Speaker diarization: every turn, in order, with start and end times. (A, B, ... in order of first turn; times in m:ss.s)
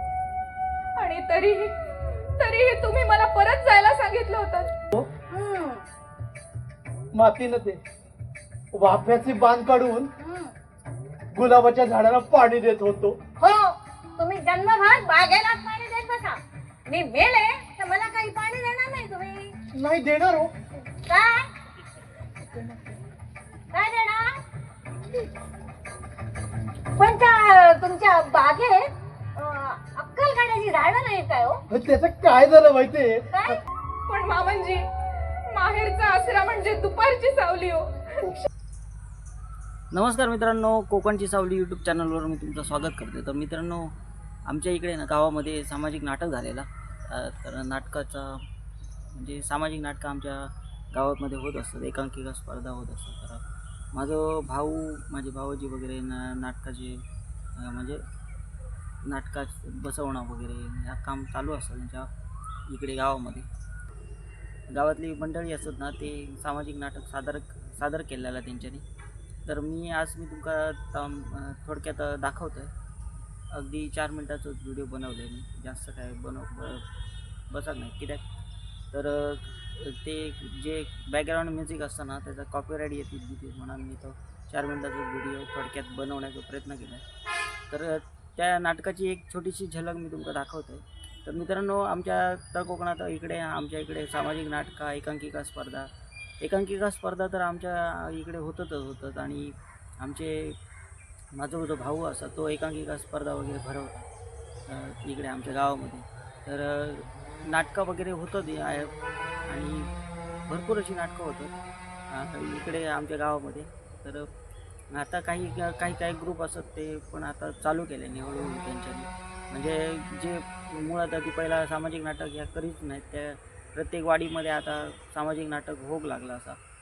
0:01.0-0:01.7 A
0:02.4-0:04.7 A
0:05.3-0:05.8 B
0:07.1-0:07.8 C
0:08.7-0:10.1 C
0:10.2-0:10.5 B
0:11.3-0:13.2 C
0:13.4-0:19.5 B
0:19.7-0:20.5 C
0:21.1-0:21.5 B
0:23.7-0:24.4 B
0:27.0-0:31.6 B
0:31.7-0:33.6 C
0:33.3-0:33.6 B
0:34.1-0:34.8 A
0:35.5-0:38.3 A
0:39.9-0:43.9 D
0:44.5-0:48.4 D
0:49.1-0:57.0 D
0:57.6-0:58.0 D
0:59.0-1:02.1 D
1:02.7-1:03.5 D
1:04.7-1:08.8 D
1:09.4-1:12.7 D
1:13.5-1:16.8 D
1:17.5-1:18.2 D
1:18.9-1:27.0 D
1:27.7-1:40.6 D
1:41.3-1:44.1 D
1:44.7-1:48.9 D
1:49.5-1:49.9 D
1:50.5-1:51.5 D
1:52.1-1:54.3 D
1:54.9-2:06.6 D